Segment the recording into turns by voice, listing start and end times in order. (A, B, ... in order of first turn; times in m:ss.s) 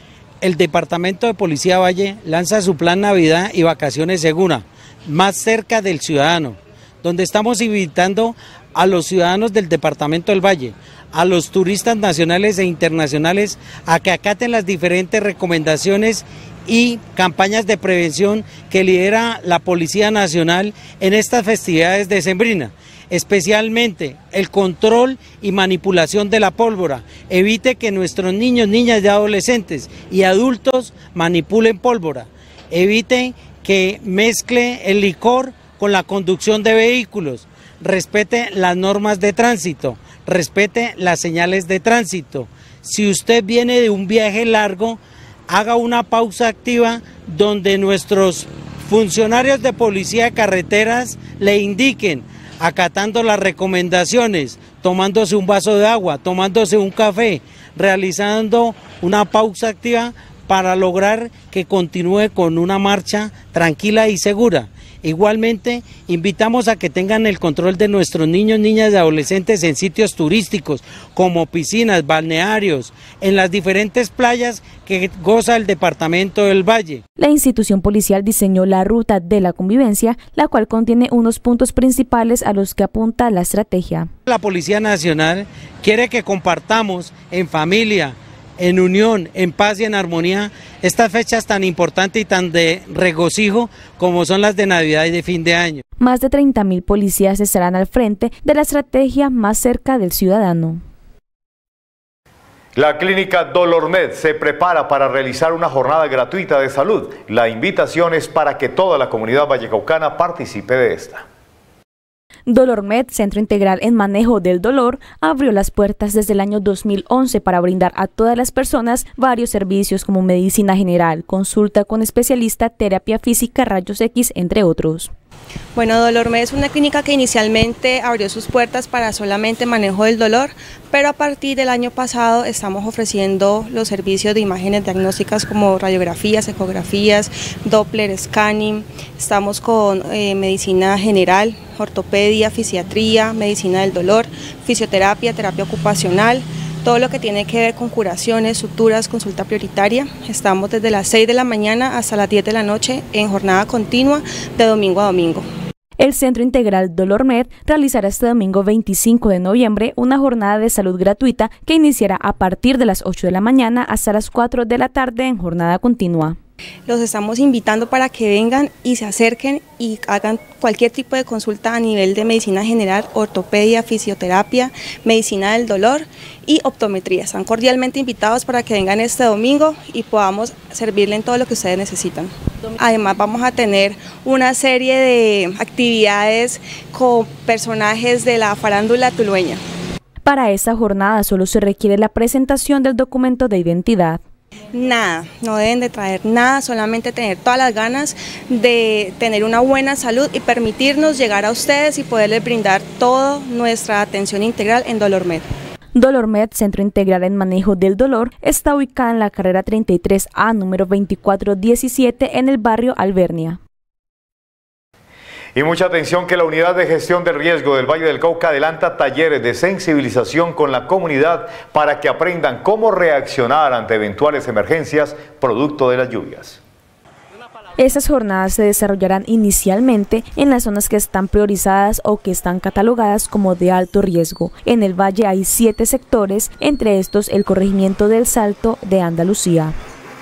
0:00.4-1:17.0 A
1:17.2-1:24.1 B
1:24.3-1:35.8 A
1:36.0-1:40.8 B
1:42.8-1:51.2 C
1:52.5-2:05.1 B
2:05.8-2:35.4 D
2:36.0-2:46.4 B
2:46.9-3:09.6 D
3:10.2-3:14.2 B
3:14.7-3:25.5 D
3:26.0-3:33.6 B
3:35.6-3:46.6 C
3:47.8-3:59.8 B